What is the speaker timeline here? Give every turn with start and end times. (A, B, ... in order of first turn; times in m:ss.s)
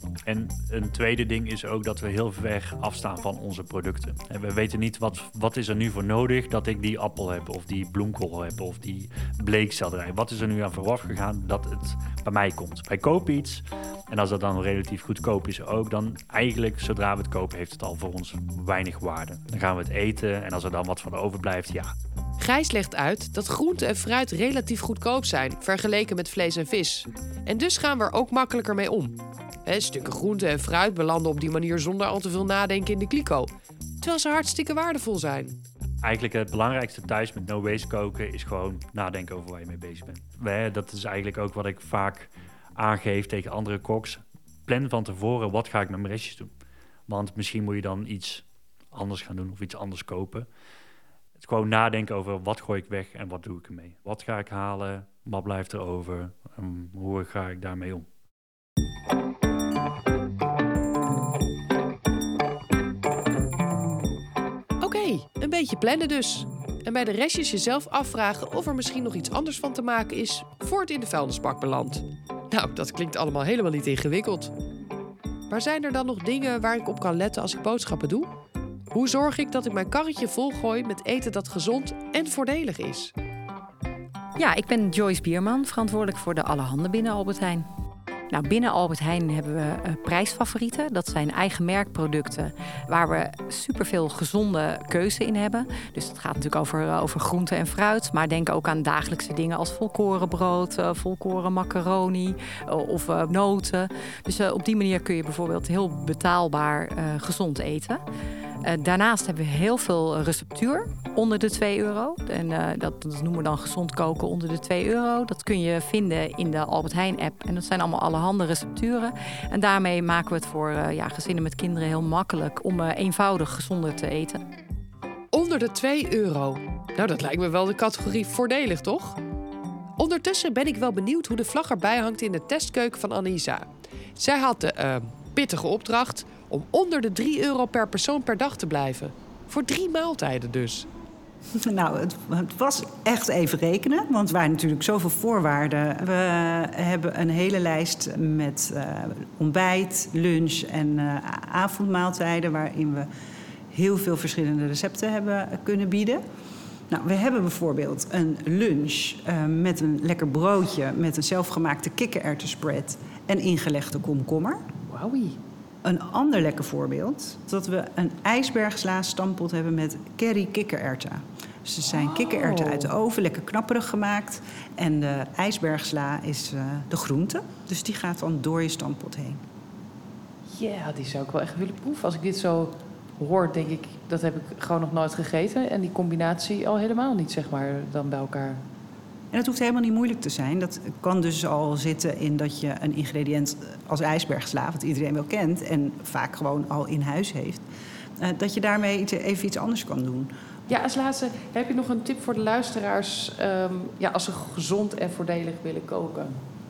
0:00.2-0:21.9 A
0:22.4-0:35.6 B
0:36.0-0:46.5 A
0:47.1-0:50.5 A
0:51.4-0:58.1 A
1:04.8-1:14.5 B
1:15.5-1:18.3 B
1:18.9-1:23.1 B
1:24.4-1:27.7 C
1:28.3-1:48.0 C
1:48.6-2:04.4 C
2:05.3-2:09.2 B
2:10.0-2:20.9 B
2:21.6-2:33.1 D
2:33.7-2:36.2 D
2:36.9-2:44.6 D
2:45.0-2:45.4 E
2:45.8-2:59.4 D
2:52.0-2:52.8 E
3:00.5-3:08.6 E
3:09.3-3:17.6 D
3:18.2-3:20.3 D
3:20.7-3:26.3 E